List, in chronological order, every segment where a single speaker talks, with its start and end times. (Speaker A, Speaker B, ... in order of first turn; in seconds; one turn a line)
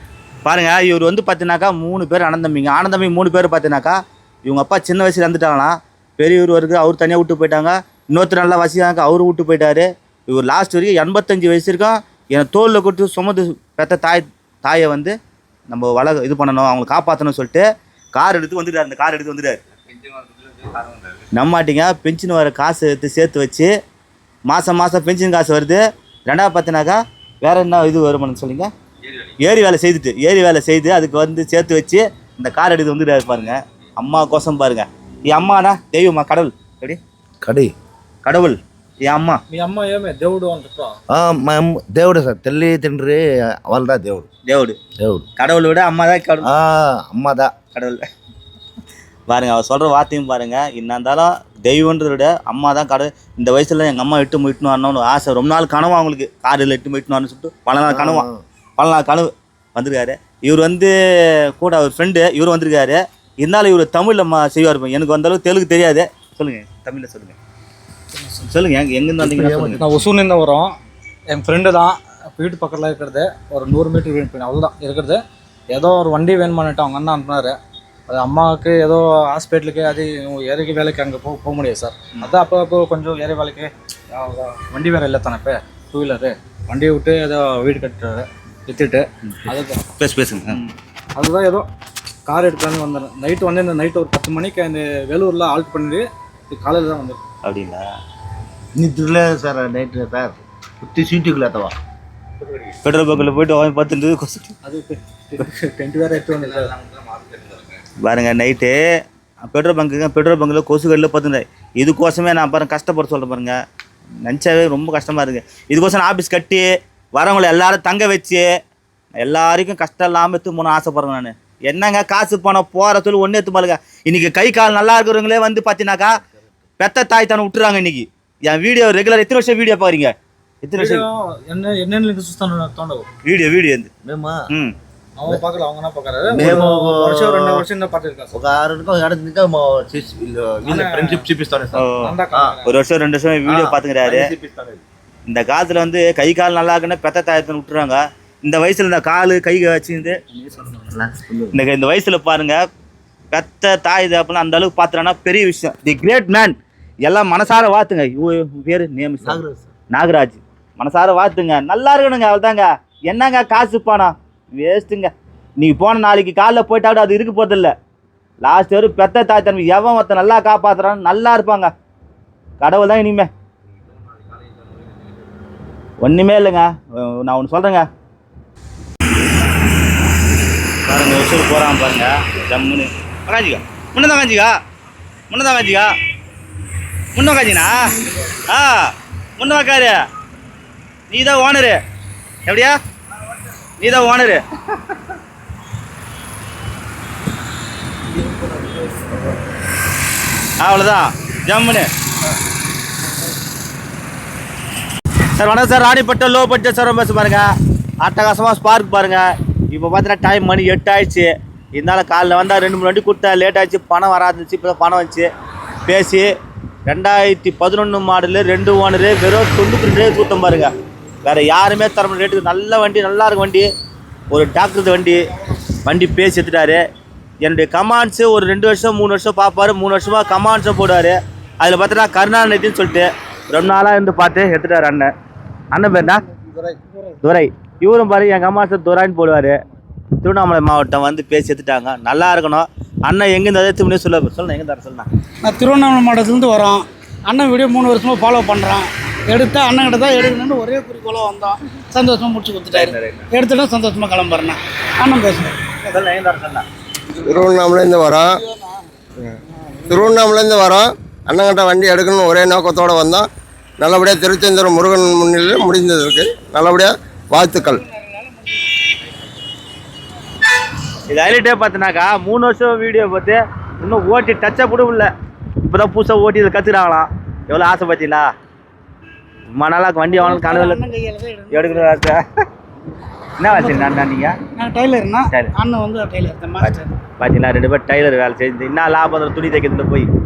Speaker A: 0.4-15.2
Speaker A: 15.7-19.6
Speaker A: 21.3-23.7
Speaker A: 24.5-28.7
Speaker A: 29.4-37.0
Speaker B: 37.4-37.7
Speaker A: 38.2-39.4
Speaker C: 39.5-41.0
Speaker B: 41.1-44.3
Speaker A: 44.4-44.8
Speaker B: 45.0-45.2
Speaker A: 45.4-46.5
Speaker B: 46.4-47.5
Speaker A: 47.7-48.0
Speaker A: 49.3-58.3
Speaker B: 57.9-58.4
Speaker A: 58.8-60.9
Speaker A: 61.6-67.4
Speaker C: 68.2-68.4
Speaker A: 68.5-69.8
Speaker B: 69.2-70.0
Speaker C: 69.7-70.8
Speaker C: 71.3-77.6
Speaker C: 78.1-89.8
Speaker A: 90.0-90.7
Speaker C: 91.2-91.7
Speaker C: 92.2-97.2
Speaker A: 97.4-97.9
Speaker B: 98.8-101.8
Speaker A: 102.8-104.5
Speaker C: 104.6-106.8
Speaker A: 108.0-108.8
Speaker A: 109.5-113.6
Speaker A: 114.2-118.5
Speaker A: 119.2-126.1
Speaker A: 126.8-131.0
Speaker C: 130.8-133.1
Speaker A: 133.2-133.9
Speaker B: 134.0-134.4
Speaker C: 135.2-138.3
Speaker B: 136.3-137.6
Speaker B: 138.3-142.6
Speaker C: 140.7-141.2
Speaker A: 141.8-142.1
Speaker C: 142.0-142.7
Speaker A: 142.7-144.3
Speaker B: 143.5-144.8
Speaker A: 145.3-150.2
Speaker B: 150.8-151.6
Speaker A: 151.5-152.6
Speaker A: 153.3-159.4
Speaker B: 159.2-159.7
Speaker A: 159.9-167.7
Speaker A: 168.4-171.7
Speaker A: 172.6-173.3
Speaker A: 176.0-177.9
Speaker A: 180.9-184.5
Speaker A: 185.3-185.9
Speaker A: 187.1-187.8
Speaker A: 188.3-190.0
Speaker A: 191.1-191.8
Speaker A: 192.4-192.8
Speaker A: 193.8-194.4
Speaker B: 198.2-199.0
Speaker A: 200.6-201.9
Speaker A: 205.4-207.5
Speaker A: 208.0-215.3
Speaker A: 215.9-216.3
Speaker A: 216.9-220.7
Speaker A: 221.2-223.7
Speaker A: 224.3-225.2
Speaker A: 225.9-226.8
Speaker A: 227.4-235.1
Speaker A: 235.7-236.2
Speaker A: 237.2-239.6
Speaker A: 240.2-245.1
Speaker D: 245.4-255.6
Speaker A: 252.8-253.3
Speaker A: 255.8-256.6
Speaker E: 257.2-258.3
Speaker E: 259.9-263.3
Speaker E: 263.8-267.8
Speaker A: 271.1-275.1
Speaker A: 275.6-278.3
Speaker A: 279.5-280.9
Speaker D: 280.1-281.9
Speaker A: 281.5-282.2
Speaker A: 283.4-284.4
Speaker D: 283.5-286.9
Speaker A: 285.3-285.5
Speaker A: 286.6-290.1